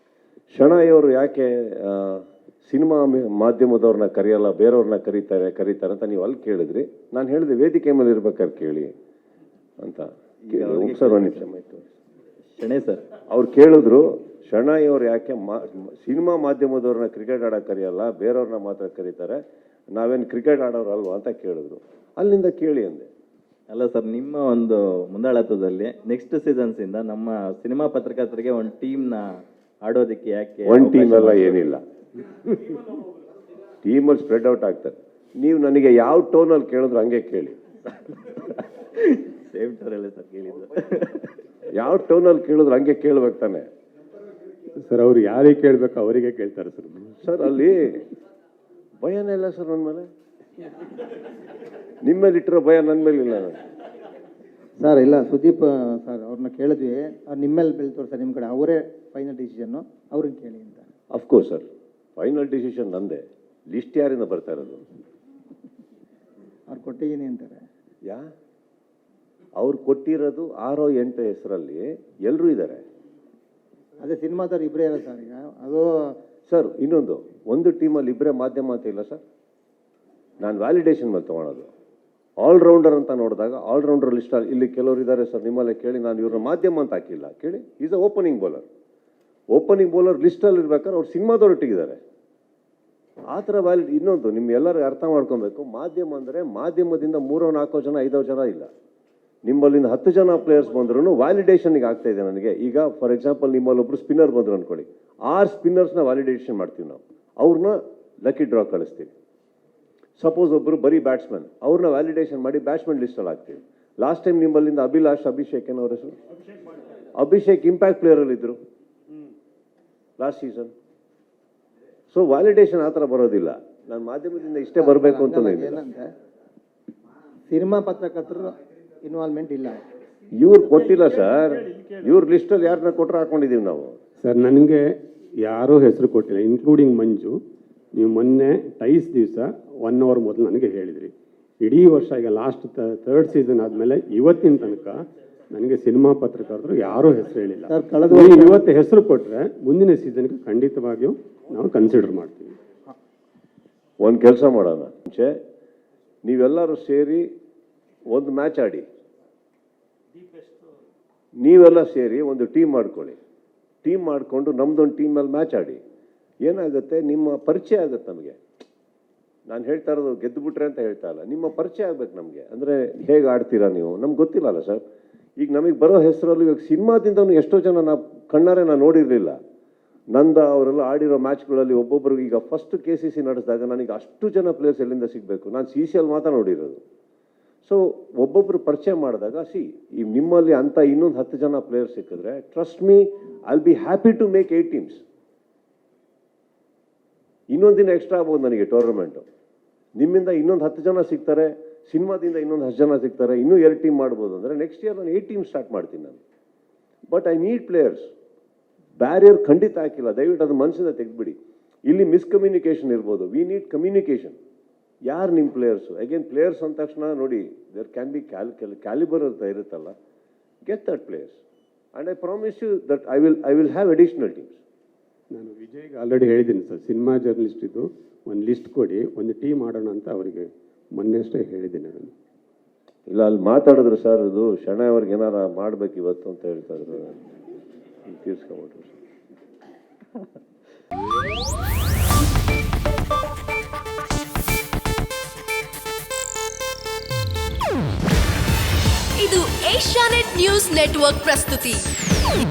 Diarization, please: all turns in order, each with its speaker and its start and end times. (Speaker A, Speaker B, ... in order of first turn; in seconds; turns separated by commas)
Speaker A: 0.5-8.9, Speaker A: 9.8-11.7, Speaker B: 10.4-11.8, Speaker B: 12.6-13.0, Speaker A: 13.3-19.4, Speaker A: 19.9-23.1, Speaker B: 23.7-31.6, Speaker A: 30.7-31.8, Speaker A: 33.8-37.6, Speaker B: 38.3-41.3, Speaker A: 41.8-43.7, Speaker C: 44.8-47.2, Speaker A: 47.2-48.0, Speaker A: 49.0-50.1, Speaker A: 52.0-53.6, Speaker D: 54.8-60.9, Speaker A: 61.1-61.6, Speaker A: 62.2-64.8, Speaker D: 66.7-67.6, Speaker A: 69.6-72.8, Speaker D: 74.0-75.8, Speaker A: 76.5-79.2, Speaker A: 80.4-81.7, Speaker A: 82.4-88.7, Speaker A: 89.5-92.0, Speaker A: 93.3-98.7, Speaker A: 99.5-109.1, Speaker A: 110.2-116.2, Speaker A: 117.2-118.6, Speaker A: 120.2-120.7, Speaker A: 122.1-125.8, Speaker D: 124.8-126.1, Speaker D: 127.5-129.8, Speaker A: 130.4-134.0, Speaker C: 134.2-134.8, Speaker C: 135.4-137.4, Speaker C: 137.9-152.6, Speaker D: 147.7-148.6, Speaker A: 154.0-155.3, Speaker A: 156.2-157.3, Speaker A: 158.1-158.8, Speaker A: 161.4-163.2, Speaker A: 163.8-165.8, Speaker A: 166.4-168.4, Speaker A: 169.5-174.8, Speaker A: 175.4-179.4, Speaker A: 180.1-186.8, Speaker A: 187.7-195.0, Speaker A: 197.5-199.2, Speaker A: 200.0-206.2, Speaker A: 207.1-208.1, Speaker A: 209.0-214.4, Speaker A: 215.1-219.9, Speaker A: 220.7-221.4, Speaker A: 221.9-224.6, Speaker C: 225.3-232.1, Speaker A: 233.1-237.2, Speaker A: 238.1-239.0, Speaker E: 249.2-251.9